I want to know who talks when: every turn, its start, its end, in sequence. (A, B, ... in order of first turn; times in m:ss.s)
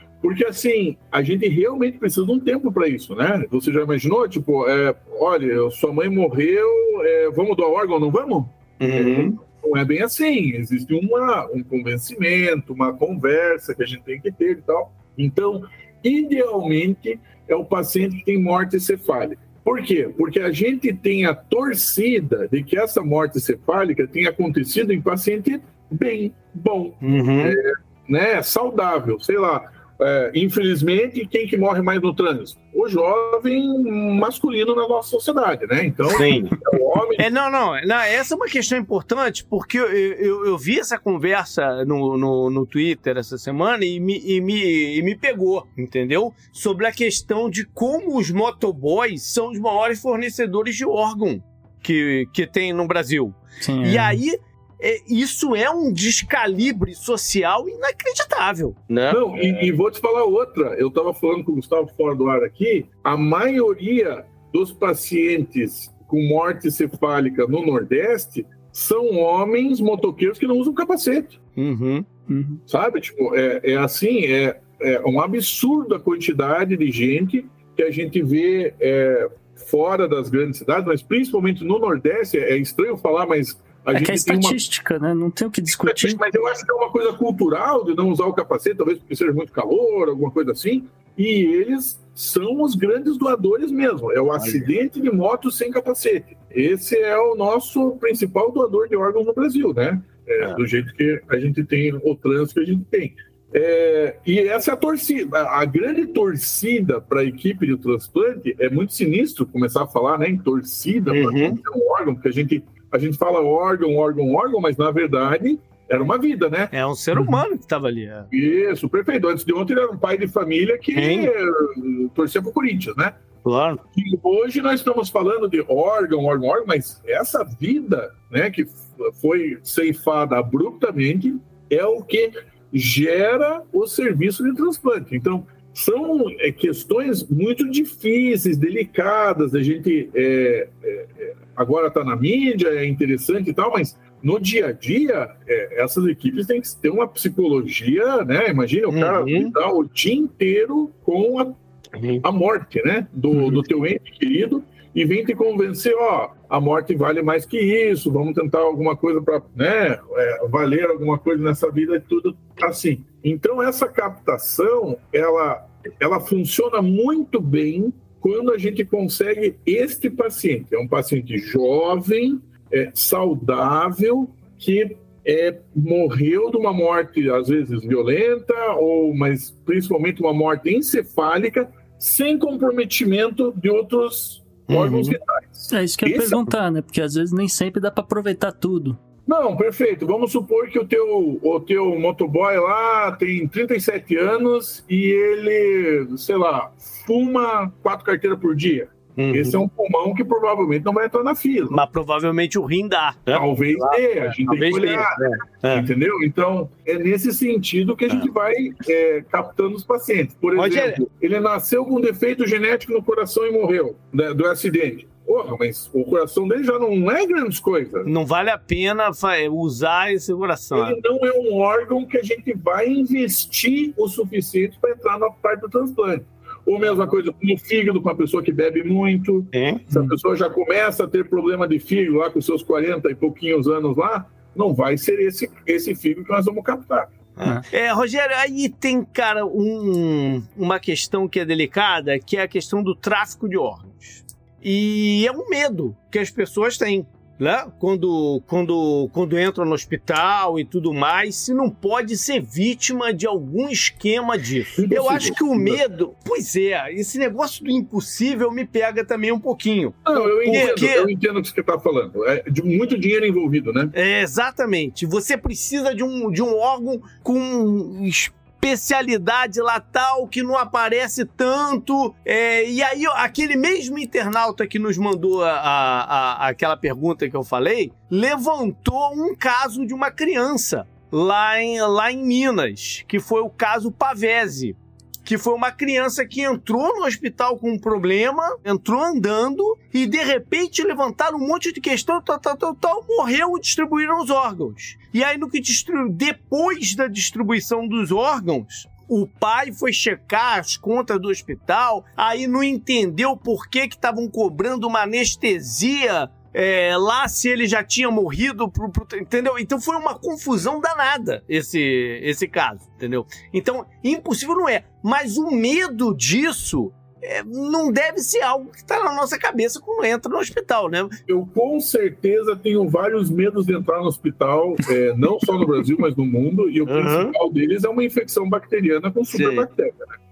0:00.2-0:37.3 A
0:08.8-0:09.4 B
0:27.0-0:27.6 B
0:36.1-0:36.6 B
0:37.2-0:59.7 B
0:53.6-0:54.2 C
0:59.1-1:11.4 A
1:11.6-1:12.1 B
1:12.3-1:12.6 C
1:12.7-1:24.6 A
1:23.9-1:26.2 C
1:25.7-1:56.7 A
1:34.4-1:34.7 B
1:51.1-1:51.6 B
1:56.7-1:58.3 B
1:57.2-1:57.4 C
1:58.3-2:03.2 A
2:01.0-2:01.3 B
2:03.4-2:03.8 B
2:03.9-2:31.6 A
2:28.9-2:29.5 B
2:32.0-2:32.2 B
2:32.2-3:06.5 A
3:04.7-3:05.2 B
3:05.7-3:09.0 C
3:09.3-3:21.8 A
3:19.2-3:19.6 B
3:21.7-3:25.9 B
3:23.3-3:38.1 A
3:30.6-3:31.0 B
3:38.0-3:41.0 B
3:40.7-3:57.1 A
3:49.5-3:50.1 B
3:57.4-4:21.1 B
4:14.8-4:15.8 A
4:20.1-4:23.9 A
4:24.0-5:21.2 B
5:21.3-5:30.1 A
5:26.9-5:27.4 B
5:29.3-5:29.7 B